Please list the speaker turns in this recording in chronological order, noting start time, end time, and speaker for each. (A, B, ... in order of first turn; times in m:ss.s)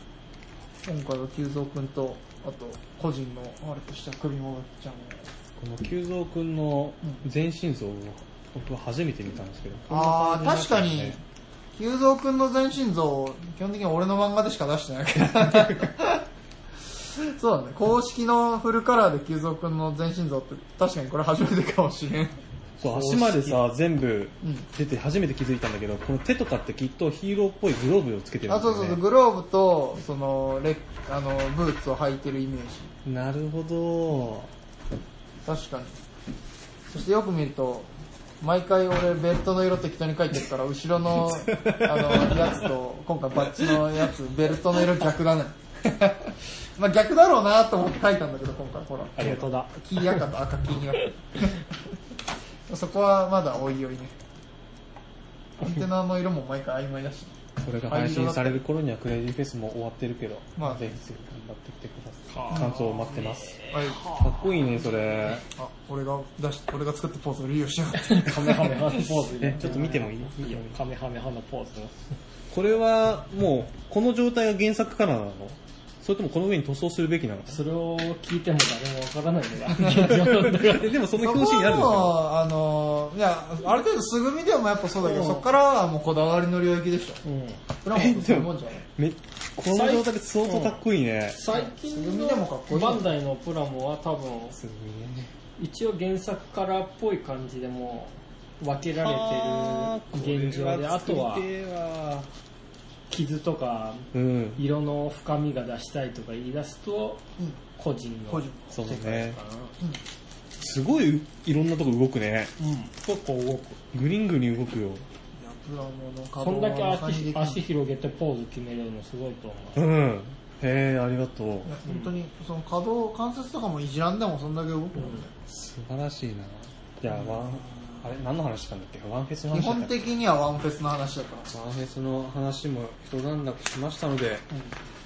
0:00.8-0:05.3 A
0:05.6-0:11.2 B
0:09.9-0:11.2 A
0:11.7-0:16.2 A
0:17.0-0:23.6 A
0:22.8-0:29.0 B
0:28.5-0:32.9 A
0:33.0-0:34.5 B
0:35.4-0:35.9 A
0:36.9-0:37.9 A
0:38.4-0:51.6 A
0:41.5-0:42.4 B
0:43.5-0:44.0 B
0:49.2-0:50.2 C
0:52.7-0:54.1 A
0:55.6-0:58.6 A
0:57.6-1:05.4 B
1:00.6-1:00.9 A
1:02.3-1:04.5 C
1:02.5-1:02.9 A
1:03.7-1:04.1 A
1:05.4-1:08.9 A
1:08.0-1:12.0 C
1:09.4-1:10.7 B
1:12.5-1:17.6 B
1:17.5-1:21.0 C
1:19.8-1:22.2 B
1:21.2-1:27.2 A
1:25.1-1:25.4 C
1:27.2-1:27.6 C
1:27.8-1:28.8 A
1:27.9-1:31.4 B
1:29.6-1:30.8 C
1:31.3-1:34.6 C
1:31.5-1:33.0 A
1:34.5-1:35.3 B
1:35.6-1:41.4 C
1:39.0-1:42.3 B
1:43.1-1:47.2 C
1:44.1-1:44.6 B
1:47.8-1:49.7 C
1:48.3-1:49.0 A
1:48.7-1:49.4 B
1:50.6-1:52.5 B
1:52.6-1:53.8 C
1:53.9-1:55.0 B
1:55.4-1:57.6 A
1:56.4-1:59.9 C
1:59.7-2:01.7 B
2:01.6-2:05.3 A
2:01.8-2:02.1 C
2:05.0-2:05.2 C
2:05.5-2:10.0 B
2:07.1-2:08.0 A
2:09.5-2:11.5 A
2:11.5-2:14.5 B